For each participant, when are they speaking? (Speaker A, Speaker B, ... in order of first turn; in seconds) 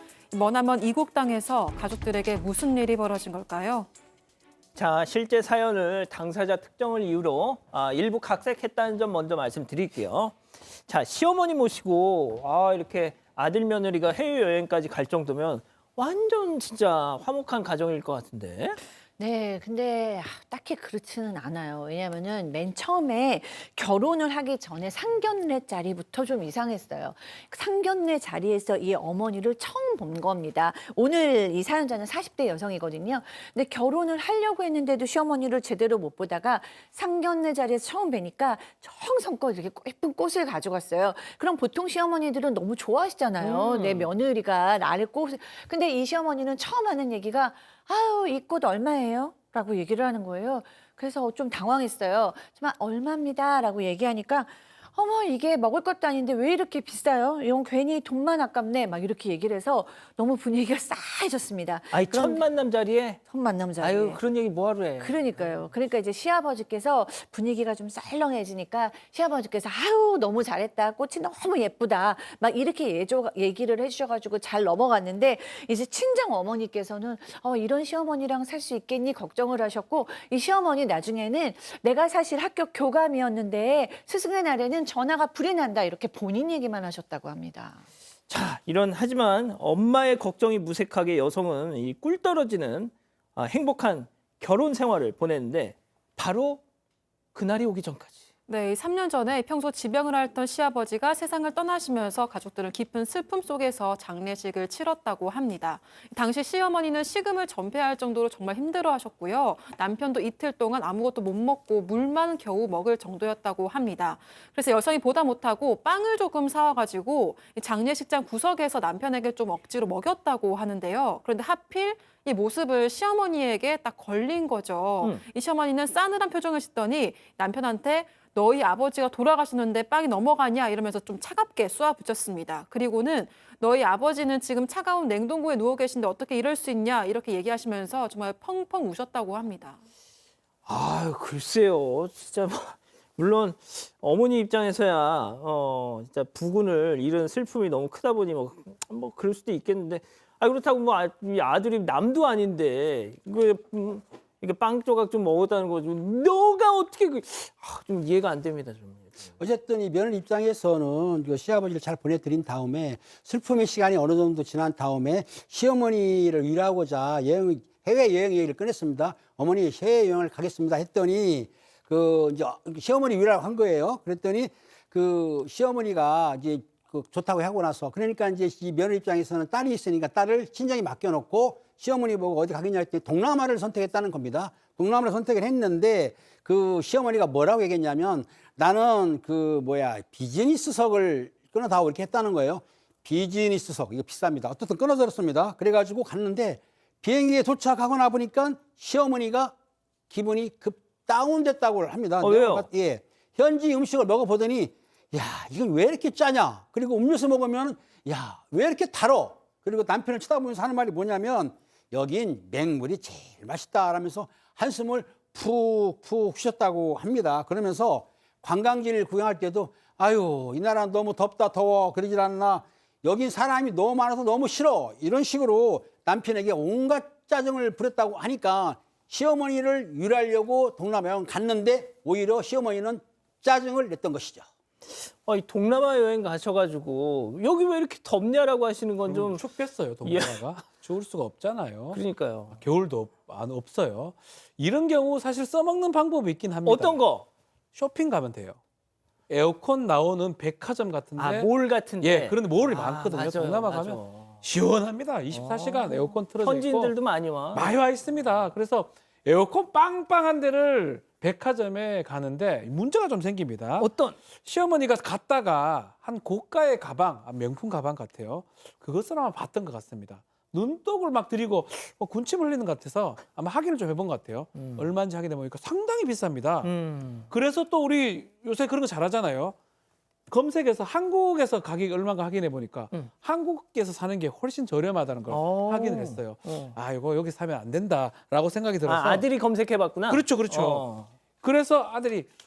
Speaker A: 0.3-3.9, 98.5-139.8
Speaker B: 4.7-18.8, 43.4-44.1, 61.9-63.2, 63.8-65.5, 88.3-96.6, 97.3-98.2, 140.7-159.3, 202.2-202.7, 234.9-239.4, 240.0-240.4, 241.9-242.6, 246.7-247.2, 251.2-254.3, 255.3-257.7, 263.8-264.2, 274.5-274.9, 276.6-277.3, 285.3-286.8, 288.9-291.1
Speaker C: 19.2-62.5, 63.3-64.2, 65.0-87.8
Speaker D: 159.4-199.5, 200.1-234.4
Speaker E: 239.1-247.0, 247.7-248.6, 249.3-256.9, 257.5-276.7, 277.3-279.6, 280.3-289.3, 290.1-290.9, 291.4-292.3